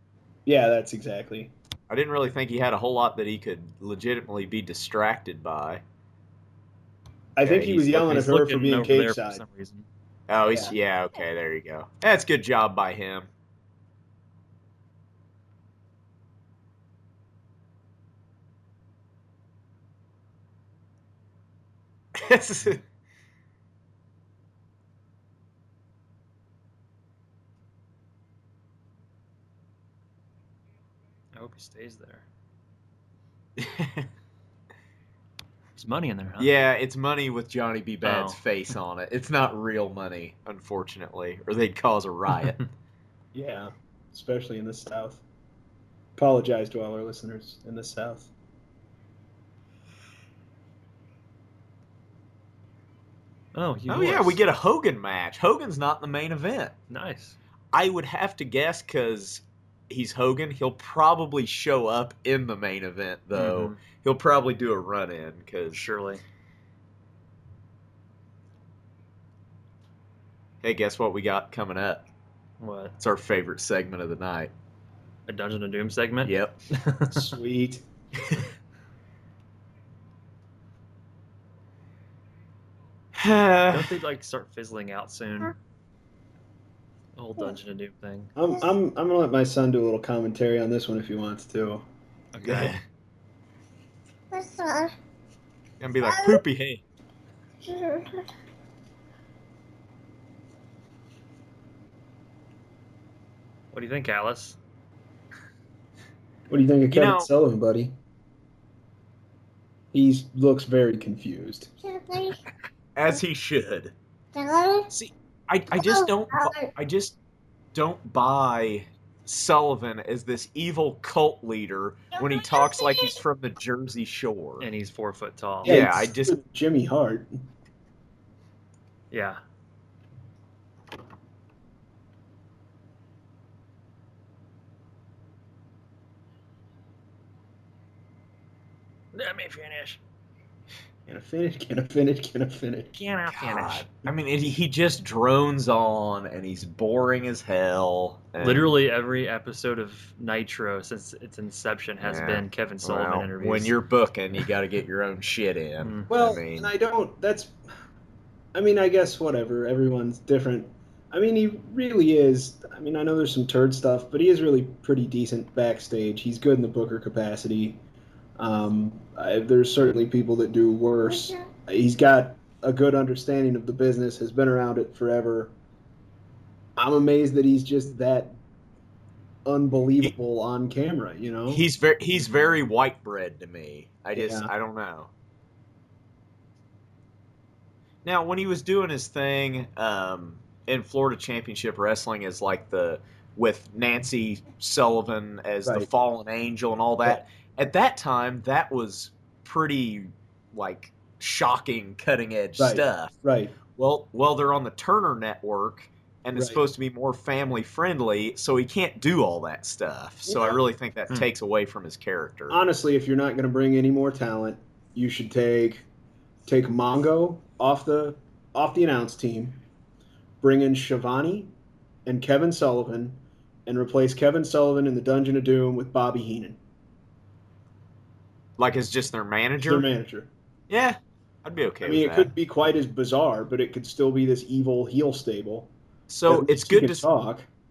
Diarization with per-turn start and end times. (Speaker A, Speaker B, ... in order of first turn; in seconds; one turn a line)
Speaker A: 0.5-1.5
Speaker B: 1.9-5.8
Speaker A: 7.4-9.4
Speaker B: 7.4-7.8
Speaker C: 7.8-9.9
Speaker B: 10.3-13.3
Speaker B: 22.1-22.8
Speaker C: 31.4-32.2
Speaker B: 33.6-34.1
Speaker C: 35.8-36.5
Speaker B: 36.4-42.6
Speaker C: 38.0-38.4
Speaker A: 43.3-45.2
Speaker A: 46.2-48.3
Speaker C: 53.5-54.4
Speaker B: 53.9-56.7
Speaker C: 56.9-57.4
Speaker B: 57.7-65.8
Speaker C: 63.3-63.8
Speaker C: 65.7-66.2
Speaker B: 70.6-72.0
Speaker C: 72.6-73.0
Speaker B: 73.0-74.5
Speaker C: 75.3-77.3
Speaker B: 76.2-76.6
Speaker A: 77.1-77.8
Speaker B: 83.2-83.9
Speaker C: 83.7-85.6
Speaker C: 87.2-88.3
Speaker A: 88.4-91.9
Speaker C: 92.3-92.8
Speaker B: 92.4-92.8
Speaker D: 94.3-94.9
Speaker B: 95.8-96.8
Speaker D: 96.0-96.4
Speaker D: 97.6-98.3
Speaker C: 103.7-104.6
Speaker A: 106.5-108.0
Speaker B: 106.9-107.3
Speaker A: 109.9-111.7
Speaker D: 111.8-112.4
Speaker B: 113.0-113.9
Speaker D: 114.3-114.9
Speaker B: 114.9-117.2
Speaker D: 115.7-116.7
Speaker B: 117.7-124.7
Speaker D: 122.2-123.2
Speaker C: 124.6-125.8
Speaker B: 125.6-126.4
Speaker A: 125.6-127.4
Speaker C: 129.1-129.4
Speaker C: 139.1-140.0
Speaker A: 141.1-142.9
Speaker C: 142.9-143.9
Speaker B: 143.3-148.7
Speaker C: 148.4-153.8
Speaker B: 152.0-156.7
Speaker C: 155.8-156.1
Speaker A: 156.1-157.6
Speaker A: 158.5-167.8
Speaker A: 168.4-175.5
Speaker A: 176.8-178.4
Speaker A: 179.4-181.7
Speaker B: 181.5-185.1
Speaker A: 184.1-184.5
Speaker B: 188.1-203.2
Speaker A: 202.6-203.6
Speaker B: 203.7-212.6
Speaker A: 206.3-206.6
Speaker A: 210.3-210.6
Speaker A: 212.5-215.9
Speaker A: 216.5-219.6
Speaker A: 220.4-221.5
Speaker A: 222.1-226.6
Speaker B: 228.6-229.9
Speaker A: 229.6-230.3
Speaker B: 230.7-232.3
Speaker A: 231.8-235.7
Speaker B: 236.1-237.1
Speaker A: 236.3-237.5